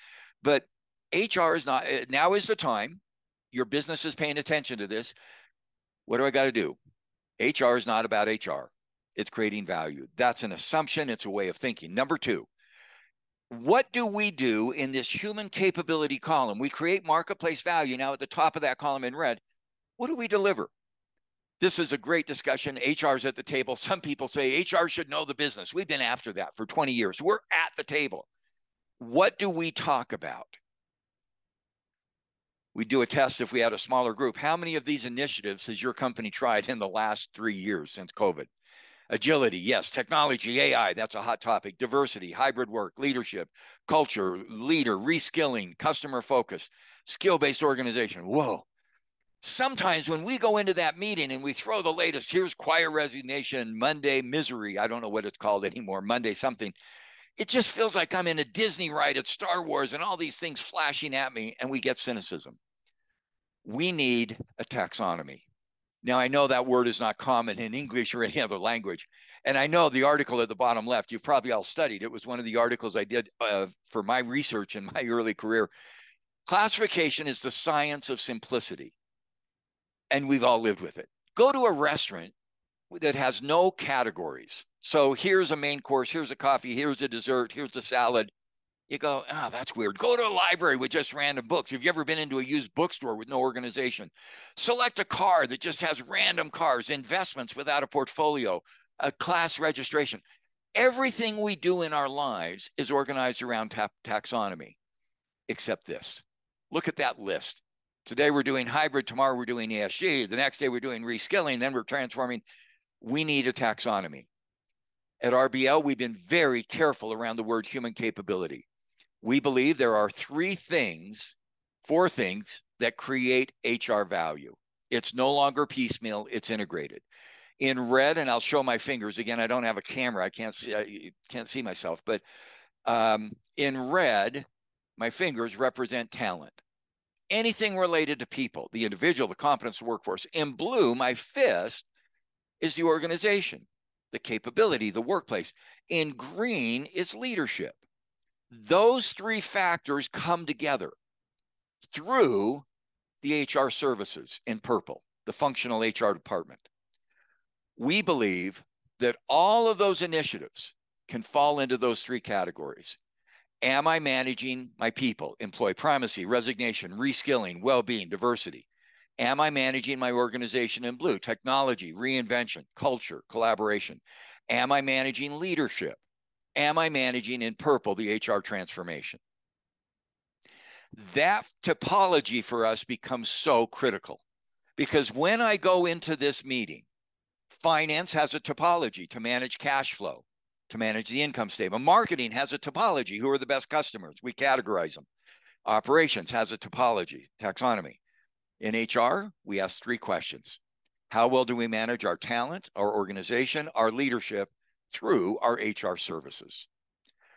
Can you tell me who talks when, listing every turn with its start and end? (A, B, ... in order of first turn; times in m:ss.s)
0:00.4-0:03.0 A
0:03.5-0:05.1 A
0:06.1-0:06.8 A
0:07.4-0:12.5 A
0:13.5-0:19.4 A
0:20.0-0:20.7 A
0:21.6-0:28.3 A
0:29.0-0:30.6 A
0:32.8-0:38.5 A
0:39.1-0:48.6 A
0:49.4-0:56.8 A
0:57.4-1:02.6 A
1:03.6-1:05.4 A
1:06.0-1:15.7 A
1:16.5-1:18.9 A
1:20.1-1:22.3 A
1:22.9-1:28.3 A
1:28.9-1:40.2 A
1:40.8-1:44.8 A
1:45.5-1:52.4 A
1:53.0-1:54.3 A
1:55.2-1:58.6 A
1:59.2-2:07.0 A
2:07.6-2:12.2 A
2:12.8-2:14.5 A
2:15.0-2:16.6 A
2:17.3-2:21.8 A
2:22.6-2:27.8 A
2:28.5-2:30.9 A
2:31.8-2:32.6 A
2:33.2-2:36.7 A
2:37.8-2:43.0 A
2:43.6-2:48.7 A
2:49.2-2:56.0 A
2:56.6-2:59.2 A
3:01.0-3:04.2 A
3:04.8-3:06.8 A
3:07.5-3:15.1 A
3:15.6-3:18.0 A
3:18.6-3:20.6 A
3:21.1-3:26.7 A